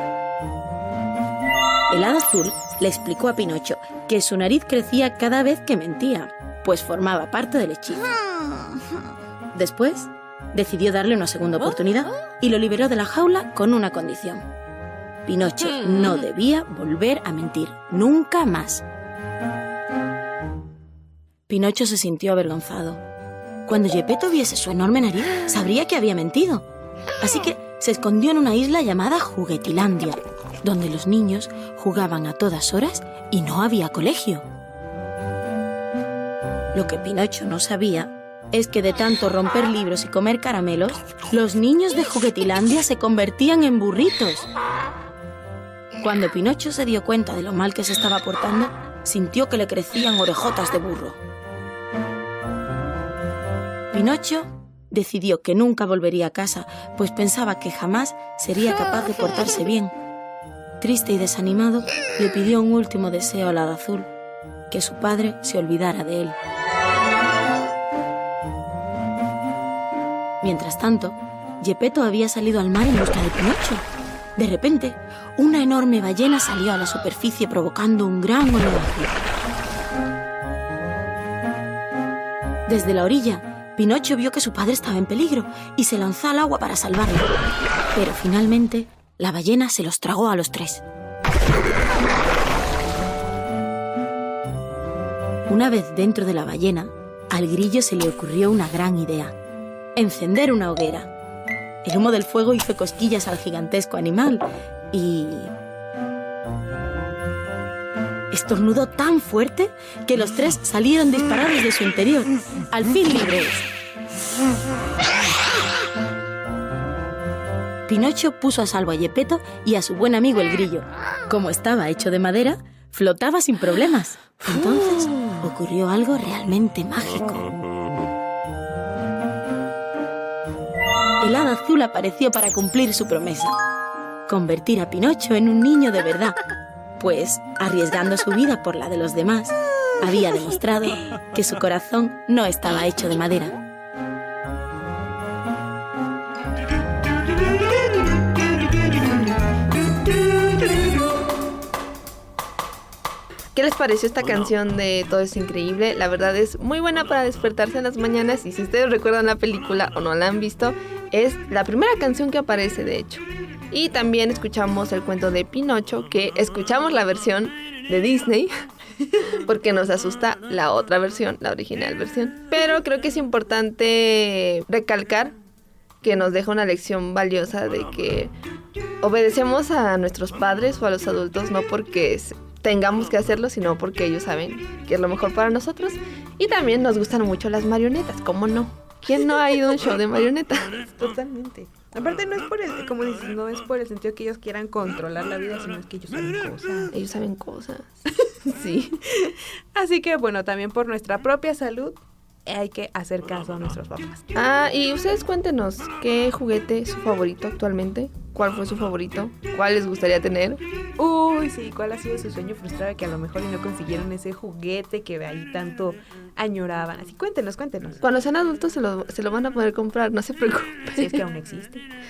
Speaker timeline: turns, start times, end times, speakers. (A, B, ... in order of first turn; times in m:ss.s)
0:01.9-0:08.2 A
0:09.5-0:14.4 A
0:15.2-0:18.8 A
0:21.5-0:23.0 A
0:23.6-0:26.6 A
0:27.2-0:34.4 A
0:36.7-0:44.5 A
0:46.0-0:51.2 A
0:53.9-0:59.9 A
1:00.8-1:04.1 A
1:04.7-1:06.3 A
1:10.4-1:13.8 A
1:14.4-1:19.2 A
1:22.7-1:27.3 A
1:27.9-1:30.8 A
1:35.5-1:39.3 A
1:40.0-1:41.1 A
1:41.8-1:45.5 A
1:48.3-1:53.6 A
1:57.9-2:07.5 A
2:11.2-2:13.6 A
2:14.3-2:16.4 A
2:17.0-2:23.5 A
2:33.5-2:48.5 B
2:49.4-2:55.3 B
2:56.0-2:58.3 B
2:59.0-3:10.8 B
3:10.9-3:16.9 C
3:16.9-3:17.9 B
3:18.5-3:19.0 B
3:19.7-3:24.2 C
3:24.3-3:30.6 B
3:31.0-3:38.0 C
3:38.0-3:41.2 B
3:40.9-3:41.9 C